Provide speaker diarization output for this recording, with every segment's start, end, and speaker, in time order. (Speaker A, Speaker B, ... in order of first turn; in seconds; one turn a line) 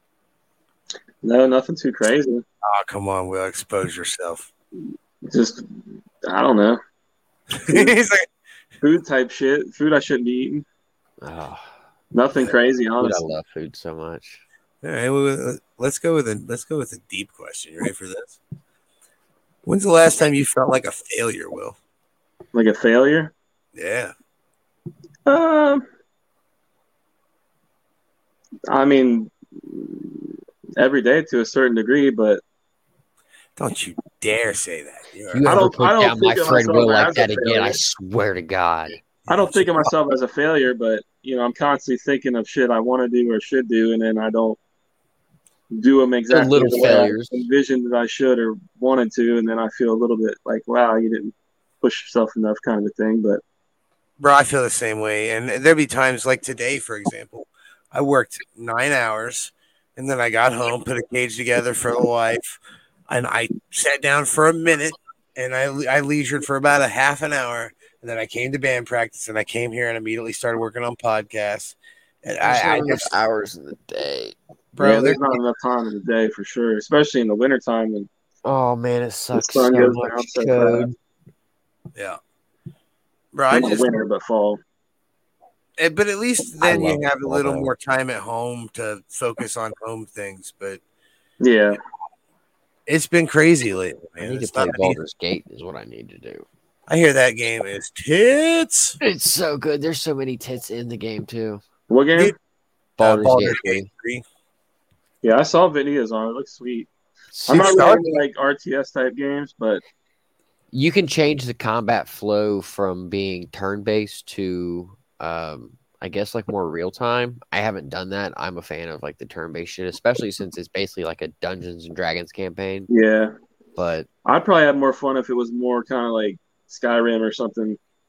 Speaker A: 1.2-2.4
Speaker B: 2.6-4.5
Speaker A: 5.3-5.7
Speaker A: 6.3-6.8
Speaker B: 7.5-8.3
Speaker A: 8.8-10.7
Speaker C: 11.2-11.7
Speaker A: 12.1-13.3
Speaker C: 13.0-14.4
Speaker B: 14.8-18.4
Speaker B: 19.6-21.8
Speaker A: 22.5-23.3
Speaker B: 23.8-24.1
Speaker A: 25.3-25.9
Speaker A: 28.7-32.4
Speaker B: 33.6-35.5
Speaker C: 35.3-39.0
Speaker A: 35.5-37.8
Speaker B: 39.3-39.9
Speaker A: 39.3-44.6
Speaker A: 45.7-53.4
Speaker C: 46.3-47.4
Speaker B: 54.2-73.1
Speaker C: 72.4-74.4
Speaker B: 74.8-75.4
Speaker A: 74.8-78.1
Speaker C: 78.5-80.9
Speaker A: 79.3-80.9
Speaker B: 82.0-82.2
Speaker B: 83.3-83.9
Speaker A: 83.5-84.6
Speaker B: 85.8-90.8
Speaker C: 86.6-87.7
Speaker A: 91.4-91.8
Speaker B: 92.9-95.0
Speaker C: 94.2-96.5
Speaker B: 96.9-99.0
Speaker C: 99.0-101.6
Speaker A: 101.9-102.3
Speaker C: 103.0-103.9
Speaker B: 103.0-104.2
Speaker A: 105.2-106.9
Speaker C: 107.3-108.0
Speaker B: 107.5-108.2
Speaker A: 107.5-109.8
Speaker C: 110.7-122.9
Speaker A: 122.9-123.3
Speaker C: 123.8-124.1
Speaker A: 124.2-127.8